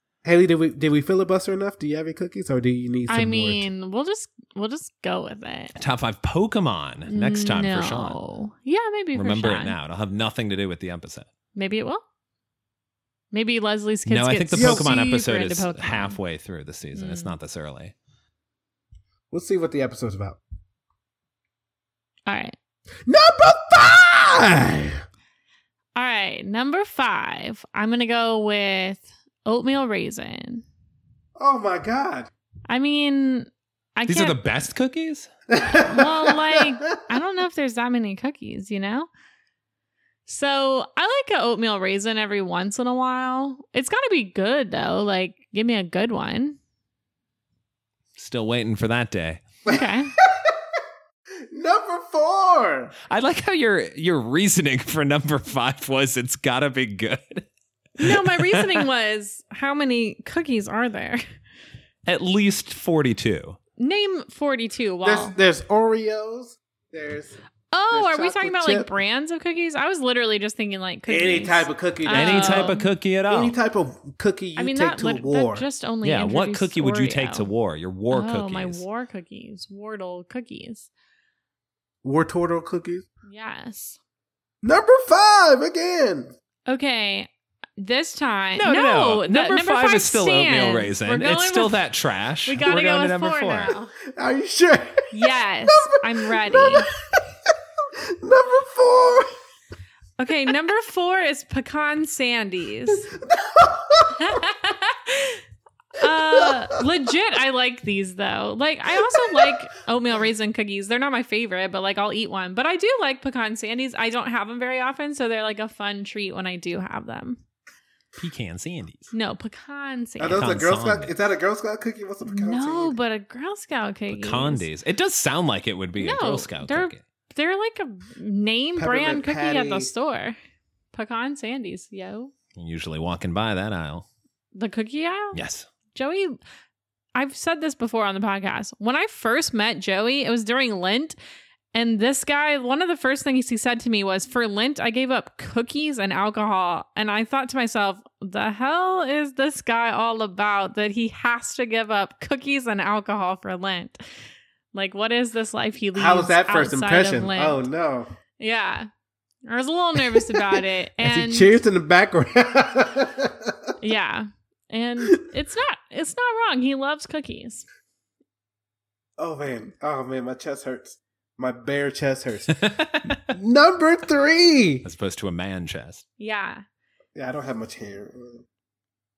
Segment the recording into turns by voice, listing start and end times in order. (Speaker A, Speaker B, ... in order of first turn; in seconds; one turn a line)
Speaker A: 0.2-3.7
Speaker B: 3.1-5.8
Speaker C: 5.8-8.2
Speaker B: 7.1-9.7
Speaker C: 9.1-11.3
Speaker B: 11.6-12.0
Speaker B: 13.3-16.2
Speaker C: 14.1-17.9
Speaker A: 14.5-14.9
Speaker B: 16.9-17.3
Speaker A: 19.3-20.4
Speaker B: 22.3-22.6
Speaker A: 23.1-25.0
Speaker B: 26.0-30.6
Speaker A: 31.4-32.3
Speaker B: 32.7-34.4
Speaker C: 34.1-35.3
Speaker A: 35.5-37.1
Speaker B: 35.7-39.1
Speaker B: 40.3-46.6
Speaker C: 48.2-49.4
Speaker A: 49.7-50.5
Speaker B: 49.7-50.1
Speaker A: 51.5-52.9
Speaker C: 53.1-57.5
Speaker C: 58.0-58.9
Speaker B: 58.0-61.2
Speaker C: 62.1-63.6
Speaker B: 63.8-65.3
Speaker A: 65.0-67.4
Speaker B: 67.7-72.9
Speaker A: 67.9-68.9
Speaker A: 71.1-72.8
Speaker C: 72.1-73.5
Speaker A: 73.3-75.7
Speaker B: 74.6-77.5
Speaker C: 76.0-78.8
Speaker B: 78.1-80.9
Speaker A: 82.0-83.1
Speaker B: 83.3-84.0
Speaker A: 84.6-86.3
Speaker B: 86.7-91.9
Speaker C: 88.6-93.7
Speaker B: 92.5-93.9
Speaker A: 94.0-96.9
Speaker B: 95.1-96.9
Speaker A: 98.0-99.3
Speaker B: 100.2-103.1
Speaker A: 102.9-104.4
Speaker B: 104.2-105.4
Speaker B: 106.0-117.4
Speaker A: 106.0-106.8
Speaker A: 108.9-109.5
Speaker C: 118.2-119.1
Speaker B: 119.1-120.5
Speaker A: 120.2-123.0
Speaker C: 120.3-121.1
Speaker B: 122.3-124.7
Speaker C: 124.1-127.0
Speaker B: 126.0-130.4
Speaker A: 128.8-129.9
Speaker B: 130.9-132.3
Speaker C: 132.6-134.1
Speaker B: 134.6-135.4
Speaker C: 135.3-135.7
Speaker B: 135.9-136.4
Speaker B: 137.2-141.2
Speaker B: 141.7-154.0
Speaker B: 154.7-157.6
Speaker A: 155.9-158.1
Speaker B: 158.4-158.9
Speaker B: 159.5-161.6
Speaker A: 160.1-163.7
Speaker B: 163.8-167.7
Speaker A: 169.2-174.9
Speaker C: 172.6-173.2
Speaker C: 174.8-176.0
Speaker B: 176.2-176.6
Speaker A: 177.2-178.4